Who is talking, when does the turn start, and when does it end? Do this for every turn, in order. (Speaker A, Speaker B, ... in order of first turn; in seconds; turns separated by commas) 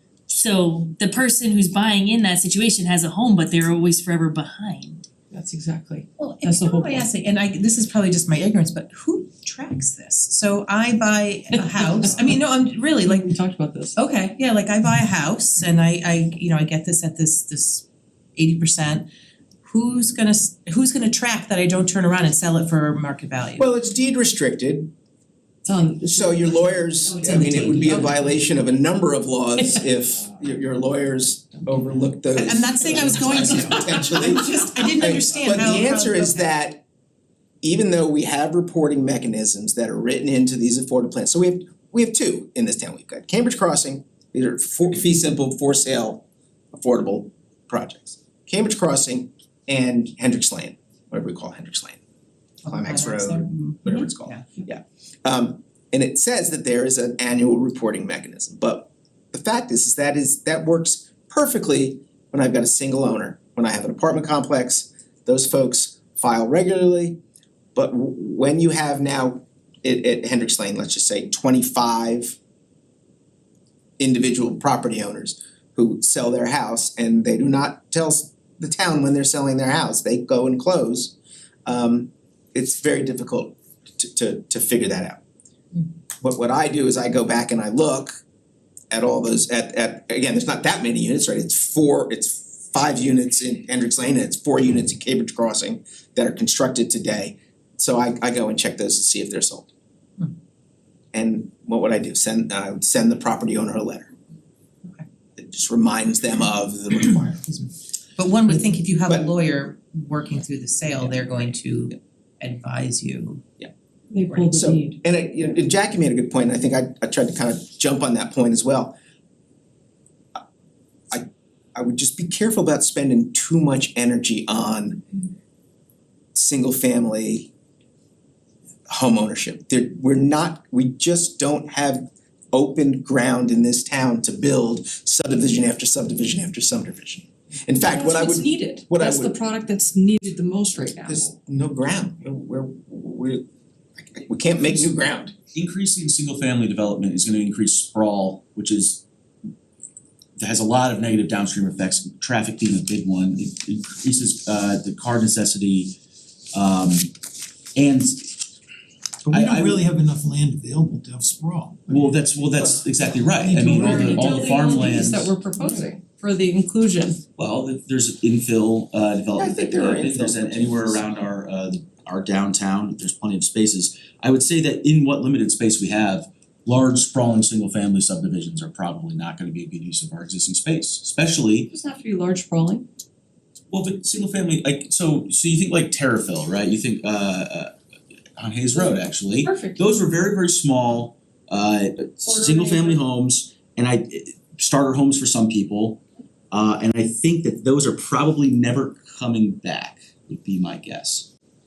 Speaker A: 0.3-5.1, Speaker B: 5.3-7.0, Speaker C: 6.2-13.3, Speaker B: 13.1-14.0, Speaker C: 14.0-19.1, Speaker C: 19.6-23.7, Speaker D: 23.6-24.9, Speaker B: 25.6-28.2, Speaker D: 26.0-36.8, Speaker C: 32.4-36.5, Speaker D: 37.6-52.0, Speaker C: 52.6-54.5, Speaker D: 52.7-67.2, Speaker D: 67.8-72.4, Speaker D: 74.0-81.2, Speaker D: 81.7-85.2, Speaker D: 86.2-88.1, Speaker D: 88.9-99.7, Speaker D: 101.1-104.1, Speaker D: 105.4-107.4, Speaker C: 107.0-113.5, Speaker B: 114.1-115.0, Speaker D: 114.5-118.9, Speaker D: 121.1-125.1, Speaker D: 126.3-127.5, Speaker D: 128.9-139.4, Speaker B: 137.8-141.3, Speaker D: 141.1-143.4, Speaker D: 144.0-145.3, Speaker E: 145.5-149.1, Speaker E: 150.4-156.0, Speaker E: 156.5-157.1, Speaker E: 157.8-158.3, Speaker F: 159.3-162.8, Speaker E: 159.3-159.9, Speaker E: 161.9-165.4, Speaker F: 163.4-164.7, Speaker B: 163.5-167.2, Speaker F: 165.6-165.9, Speaker E: 167.4-181.7, Speaker B: 169.4-170.3, Speaker F: 170.2-170.8, Speaker B: 181.7-182.9, Speaker E: 183.7-187.7, Speaker E: 188.4-201.3, Speaker B: 188.8-189.8, Speaker B: 192.2-193.0